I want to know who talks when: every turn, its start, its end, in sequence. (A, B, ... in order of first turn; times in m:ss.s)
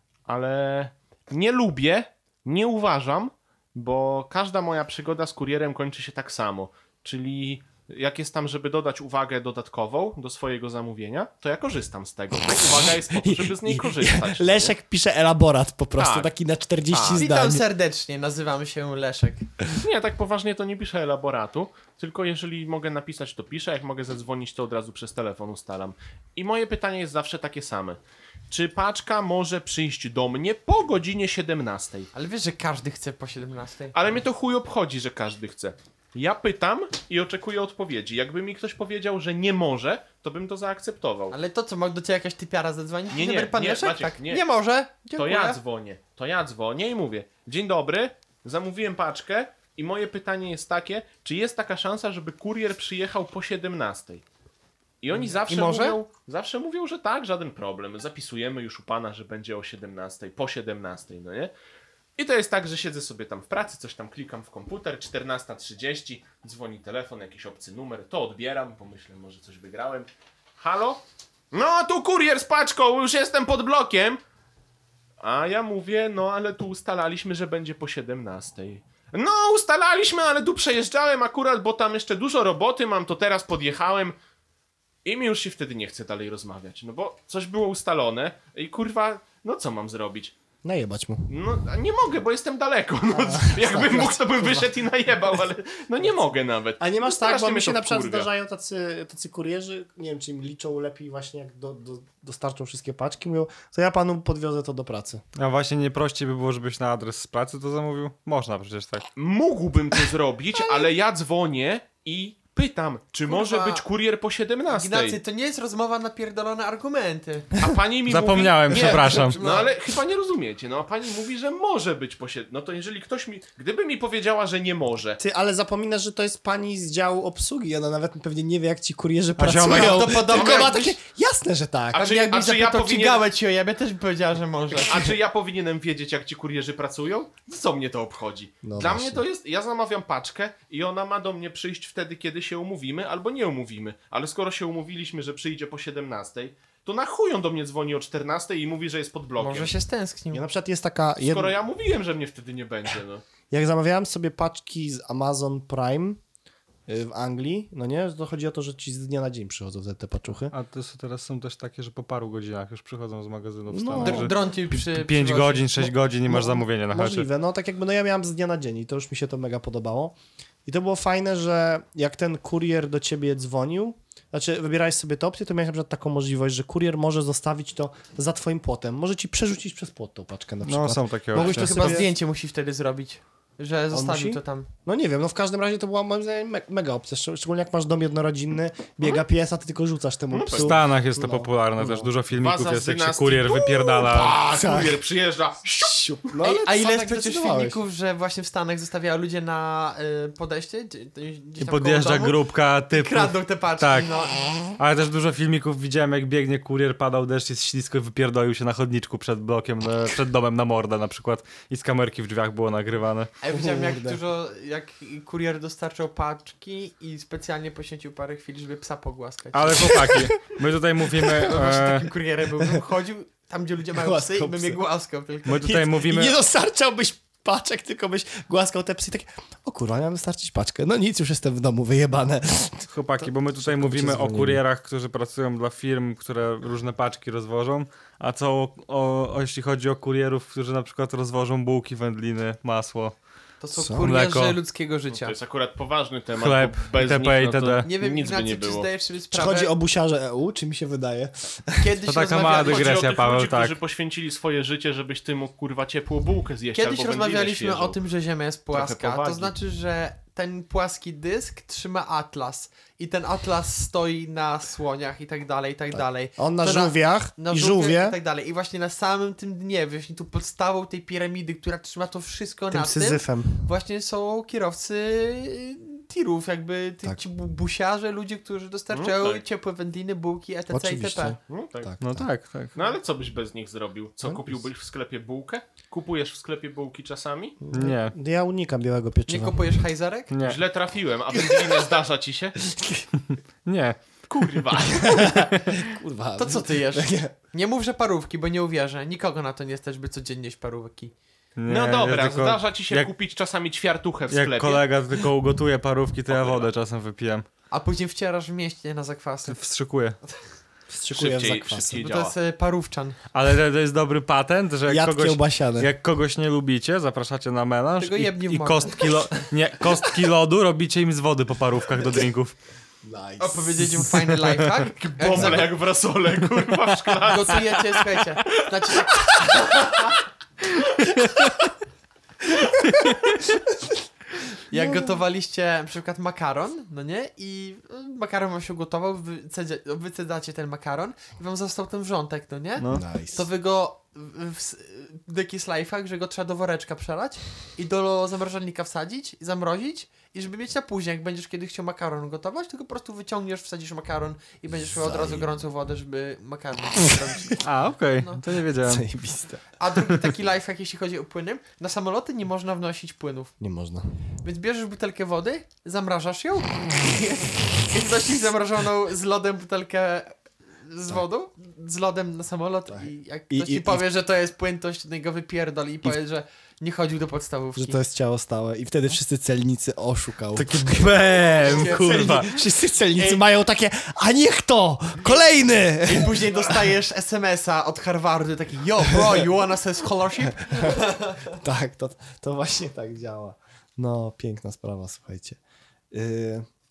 0:00.3-0:14.8 A
0:12.7-0:17.6 B
0:16.0-0:16.3 A
0:16.9-0:17.3 A
0:17.1-0:19.5 C
0:19.8-0:32.1 A
0:32.1-0:34.0 C
0:33.9-0:41.4 A
0:41.3-0:45.6 C
0:43.1-0:44.4 A
0:45.2-0:54.2 A
0:55.0-1:01.5 A
0:55.5-0:56.0 C
1:02.2-1:10.1 A
1:10.6-1:14.2 A
1:15.2-1:24.1 A
1:25.0-1:30.4 A
1:30.6-1:31.3 B
1:31.3-1:38.3 A
1:33.1-1:34.8 B
1:36.8-1:45.2 B
1:45.4-1:49.1 D
1:49.2-1:55.2 A
1:53.3-1:53.8 C
1:54.7-1:57.5 C
1:57.6-2:05.2 A
1:58.1-1:59.4 D
1:59.4-1:59.7 C
2:05.2-2:12.0 B
2:09.4-2:11.0 C
2:09.4-2:10.2 D
2:10.4-2:10.7 A
2:11.9-2:13.2 A
2:12.0-2:14.9 C
2:14.8-2:29.7 A
2:18.6-2:19.2 B
2:29.4-2:30.4 C
2:30.3-2:31.6 B
2:31.2-2:33.2 A
2:33.5-2:36.2 B
2:36.9-2:40.5 B
2:40.5-2:47.3 D
2:43.7-2:44.4 B
2:44.0-2:45.9 C
2:46.3-3:02.1 B
3:00.6-3:02.0 D
3:01.4-3:04.7 C
3:03.9-3:12.1 B
3:10.3-3:10.8 A
3:10.5-3:14.4 D
3:12.3-3:15.6 A
3:14.4-3:15.0 B
3:15.6-3:17.8 B
3:16.4-3:24.4 C
3:21.6-3:24.2 D
3:24.8-3:33.3 D
3:33.4-3:40.1 C
3:33.5-3:34.2 B
3:39.5-3:42.1 D
3:40.0-3:40.3 B
3:41.3-3:46.0 C
3:43.9-3:44.8 B
3:45.5-3:46.4 D
3:45.6-3:54.6 B
3:52.9-4:03.2 D
4:03.6-4:05.4 C
4:03.8-4:04.1 B
4:04.0-4:04.6 D
4:05.1-4:08.9 A
4:06.4-4:07.9 D
4:07.8-4:09.7 C
4:09.3-4:11.9 B
4:11.8-4:13.0 C
4:12.0-4:13.8 D
4:12.5-4:18.0 A
4:16.7-4:41.4 C
4:18.7-4:19.5 A
4:25.9-4:28.2 B
4:32.7-4:33.7 B
4:38.9-4:39.4 A
4:40.7-4:42.3 B
4:41.5-4:41.9 A
4:42.0-4:42.8 D
4:42.8-4:47.6 A
4:44.2-4:44.6 B
4:47.6-4:49.8 B
4:47.7-4:48.2 D
4:49.3-4:50.3 C
4:50.3-4:50.6 D
4:50.4-4:52.6 A
4:51.3-4:51.8 B
4:52.6-4:53.1 B
4:53.3-4:54.0 D
4:54.3-4:55.3 A
4:54.9-4:57.3 B
4:55.3-4:55.8 D
4:56.4-5:01.1 C
5:01.6-5:03.1 D
5:01.7-5:04.9 A
5:04.3-5:07.4 D
5:06.3-5:06.7 A
5:07.7-5:09.6 C
5:09.5-5:10.2 D
5:10.9-5:12.0 B
5:11.1-5:12.4 A
5:12.0-5:13.2 C
5:13.3-5:22.6 D
5:14.9-5:15.9 B
5:18.0-5:19.4 C
5:23.0-5:24.4 B
5:23.4-5:25.7 C
5:25.0-5:27.9 A
5:27.2-5:29.9 C
5:29.2-5:30.0 A
5:34.7-5:57.6 C
5:34.7-5:35.2 B
5:42.8-5:43.0 D
5:42.9-5:43.5 B
5:54.8-5:55.5 B
5:57.6-5:59.0 D
5:58.7-5:59.6 B
5:59.8-6:03.5 C
6:03.6-6:04.2 B
6:04.4-6:18.0 C
6:12.9-6:14.0 B
6:17.8-6:26.9 B
6:20.6-6:22.5 D
6:21.6-6:22.4 C
6:26.0-6:31.5 C
6:30.6-6:35.6 B
6:36.1-6:36.7 B